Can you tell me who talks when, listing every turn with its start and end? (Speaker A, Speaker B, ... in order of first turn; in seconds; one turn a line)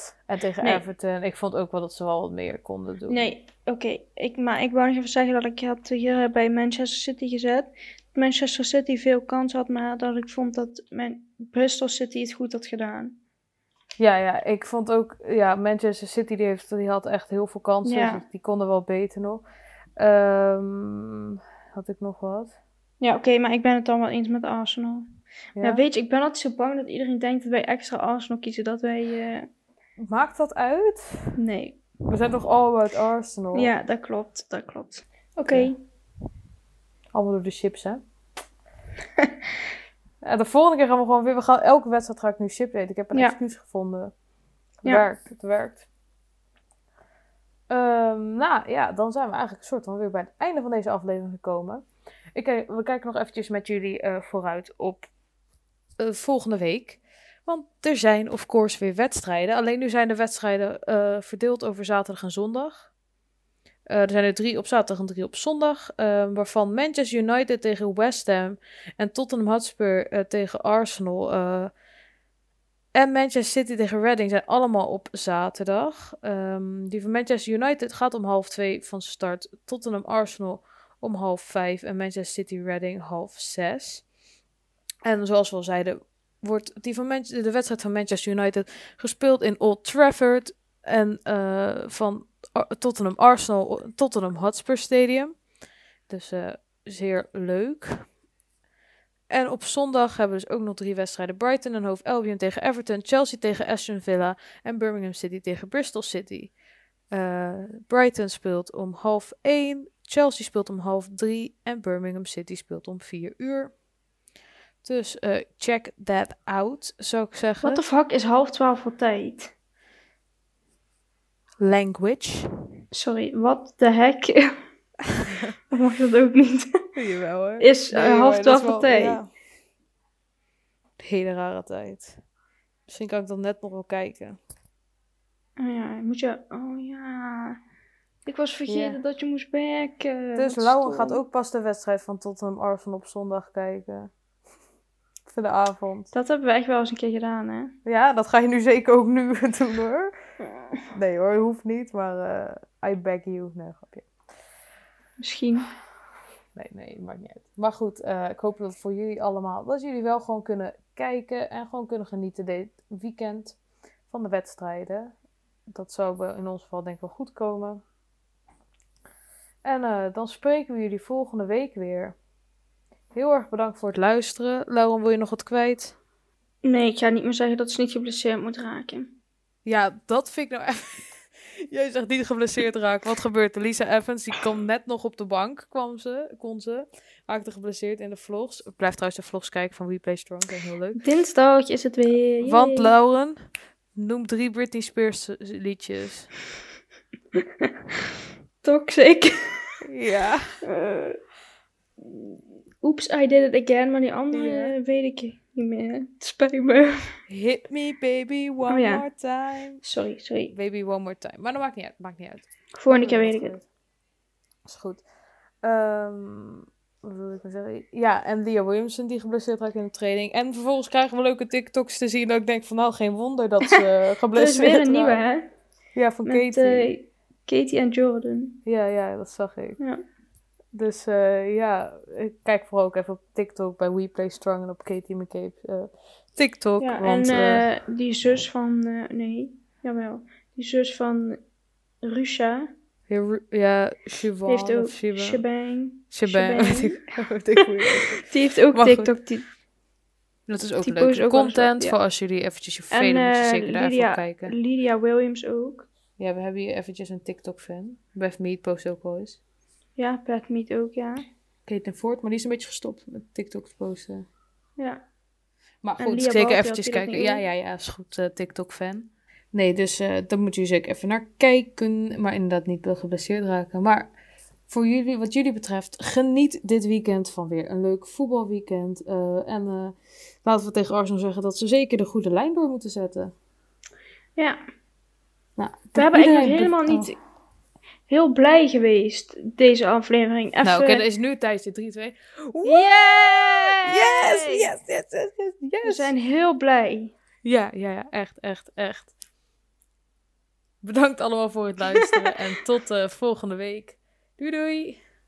Speaker A: 0.3-3.3
Speaker B: 3.1-13.2
Speaker A: 14.0-19.4
Speaker B: 17.9-18.2
Speaker A: 20.0-22.6
Speaker B: 23.0-25.1
Speaker A: 25.6-25.8
Speaker B: 25.6-29.5
Speaker A: 30.0-31.4
Speaker B: 31.4-31.8
Speaker A: 32.1-33.7
Speaker B: 33.5-35.8
Speaker A: 35.5-35.7
Speaker A: 37.1-38.0
Speaker A: 40.2-44.1
Speaker A: 44.8-45.9
Speaker A: 47.7-55.1
Speaker A: 56.0-62.9
Speaker A: 63.9-71.7
Speaker A: 72.9-84.1
Speaker A: 85.0-95.4
Speaker A: 96.1-98.1
Speaker A: 99.3-106.5
Speaker A: 107.1-113.7
Speaker A: 114.8-117.8
Speaker B: 117.6-119.5
Speaker A: 121.6-122.5
Speaker B: 122.9-124.6
Speaker A: 125.3-125.5
Speaker B: 125.7-126.8
Speaker A: 127.0-129.3
Speaker B: 127.6-129.2
Speaker A: 131.0-132.2
Speaker A: 132.9-134.4
Speaker B: 135.6-137.6
Speaker B: 138.3-141.2
Speaker A: 138.7-139.0
Speaker A: 140.3-144.1
Speaker A: 145.3-146.1
Speaker B: 146.1-147.7
Speaker A: 147.8-150.1
Speaker A: 150.9-154.1
Speaker B: 155.2-155.7
Speaker A: 156.6-163.6
Speaker A: 164.1-165.1
Speaker A: 165.7-167.8
Speaker A: 169.6-172.2
Speaker A: 173.1-176.0
Speaker B: 176.6-179.1
Speaker A: 179.7-191.0
Speaker B: 191.0-192.9
Speaker A: 192.4-193.4
Speaker A: 193.9-196.3
Speaker B: 198.6-199.8
Speaker A: 199.8-200.6
Speaker B: 200.7-201.2
Speaker B: 202.8-207.2
Speaker A: 204.3-204.7
Speaker A: 207.3-209.8
Speaker B: 208.7-209.0
Speaker B: 209.8-210.5
Speaker A: 210.5-213.7
Speaker B: 212.7-213.6
Speaker A: 214.7-215.0
Speaker A: 215.6-225.2
Speaker B: 224.3-225.5
Speaker A: 225.9-226.9
Speaker B: 226.2-228.6
Speaker A: 228.7-229.8
Speaker A: 230.7-237.7
Speaker B: 236.8-241.4
Speaker B: 242.0-242.7
Speaker A: 243.1-245.4
Speaker B: 244.5-247.1
Speaker A: 246.1-249.2
Speaker B: 248.2-249.5
Speaker A: 250.5-254.6
Speaker B: 250.8-252.0
Speaker B: 252.9-255.9
Speaker A: 256.2-259.4
Speaker B: 260.0-261.2
Speaker A: 261.7-264.3
Speaker B: 264.8-265.0
Speaker A: 265.8-274.1
Speaker B: 266.0-267.4
Speaker A: 274.7-283.3
Speaker A: 285.6-287.1
Speaker B: 285.9-287.2
Speaker B: 288.1-291.0
Speaker A: 290.6-296.1
Speaker B: 292.6-294.7
Speaker B: 295.8-297.1
Speaker A: 297.4-299.1
Speaker A: 300.8-305.0